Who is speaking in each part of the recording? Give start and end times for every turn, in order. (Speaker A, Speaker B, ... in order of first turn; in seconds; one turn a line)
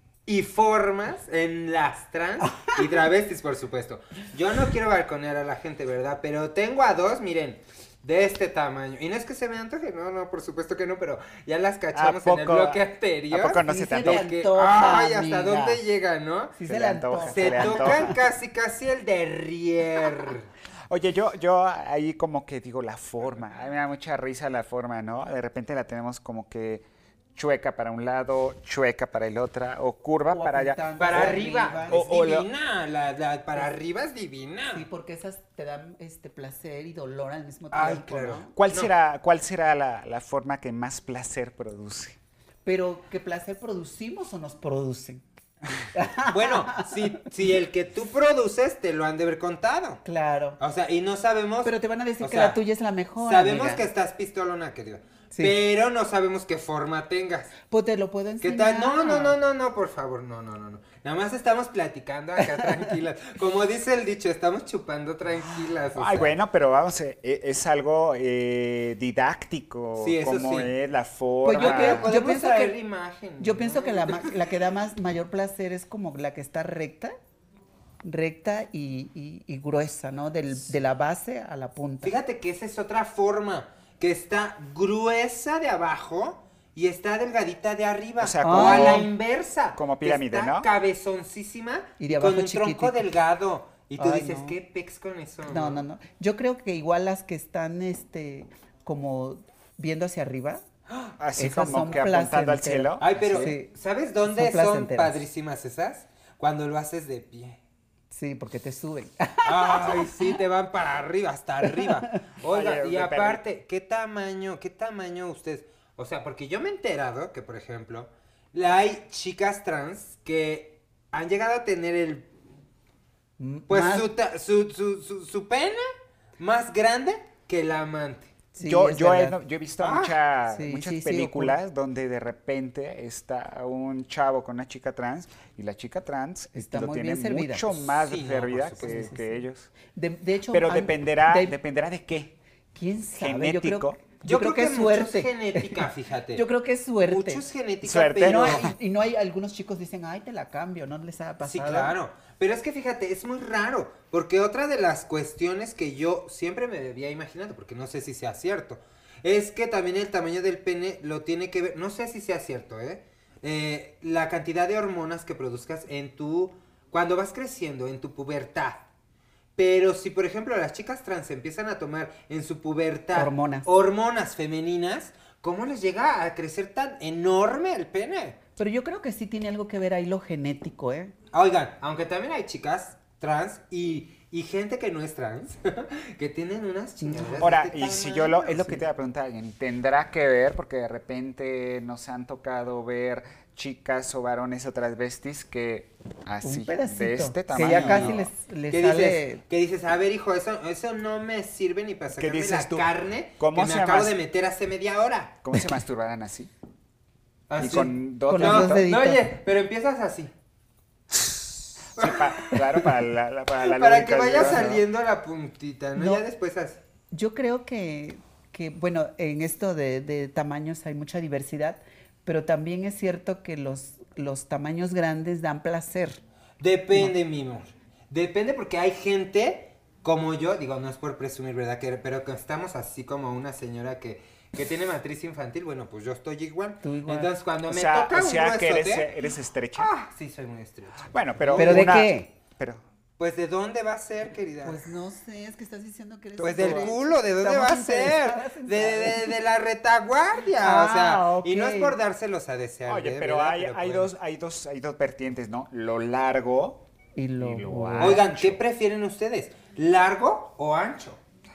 Speaker A: 0.2-16.6
Speaker B: 11.9-14.3
Speaker C: 13.6-15.8
Speaker C: 16.6-18.1
Speaker B: 16.6-18.1
Speaker A: 17.3-20.5
Speaker B: 20.9-32.5
Speaker C: 30.3-32.0
Speaker A: 31.0-34.9
Speaker C: 34.7-38.5
Speaker A: 37.7-38.9
Speaker B: 38.5-42.2
Speaker C: 42.6-45.2
Speaker C: 45.9-46.9
Speaker A: 46.3-50.0
Speaker C: 50.0-50.6
Speaker A: 50.6-52.6
Speaker C: 51.6-53.8
Speaker A: 53.2-57.5
Speaker C: 57.7-59.4
Speaker A: 58.4-66.3
Speaker B: 65.9-72.1
Speaker A: 70.0-70.7
Speaker C: 71.4-72.7
Speaker A: 71.5-74.5
Speaker C: 73.4-77.1
Speaker C: 78.0-82.1
Speaker A: 82.0-95.8
Speaker B: 88.2-89.1
Speaker C: 88.4-89.1
Speaker B: 89.7-90.7
Speaker C: 92.0-93.0
Speaker C: 94.0-94.6
Speaker C: 95.5-100.6
Speaker B: 101.2-103.5
Speaker C: 101.4-103.7
Speaker A: 103.0-107.6
Speaker C: 104.3-105.1
Speaker C: 108.1-110.3
Speaker A: 109.4-122.3
Speaker C: 111.7-112.2
Speaker B: 112.5-113.4
Speaker C: 123.4-124.1
Speaker A: 123.7-125.8
Speaker A: 126.4-128.3
Speaker C: 128.5-129.4
Speaker B: 128.6-139.7
Speaker A: 129.8-130.2
Speaker C: 130.5-131.6
Speaker C: 136.5-137.7
Speaker A: 138.0-139.0
Speaker C: 138.8-141.5
Speaker B: 140.5-142.3
Speaker C: 142.7-147.4
Speaker B: 143.2-144.0
Speaker A: 144.2-146.4
Speaker A: 147.0-148.7
Speaker B: 147.8-148.7
Speaker C: 148.2-151.9
Speaker A: 151.4-168.8
Speaker A: 169.6-178.4
Speaker C: 173.1-173.7
Speaker C: 178.6-181.1
Speaker A: 181.3-188.6
Speaker C: 187.0-187.4
Speaker B: 187.4-198.3
Speaker C: 188.5-188.8
Speaker C: 196.4-199.4
Speaker A: 197.5-205.4
Speaker B: 202.2-204.1
Speaker B: 205.4-206.5
Speaker A: 207.5-210.3
Speaker B: 207.6-208.8
Speaker C: 208.3-209.2
Speaker B: 211.9-214.8
Speaker A: 211.9-212.9
Speaker A: 213.6-216.8
Speaker C: 215.9-216.2
Speaker C: 217.1-226.2
Speaker A: 226.6-239.1
Speaker C: 236.8-237.3
Speaker B: 237.7-239.9
Speaker A: 239.8-242.0
Speaker B: 241.1-242.8
Speaker C: 241.6-242.3
Speaker A: 243.2-244.9
Speaker C: 244.6-249.3
Speaker A: 246.4-254.1
Speaker C: 250.6-252.0
Speaker B: 252.8-256.8
Speaker C: 257.1-258.2
Speaker B: 257.4-258.6
Speaker A: 258.0-261.2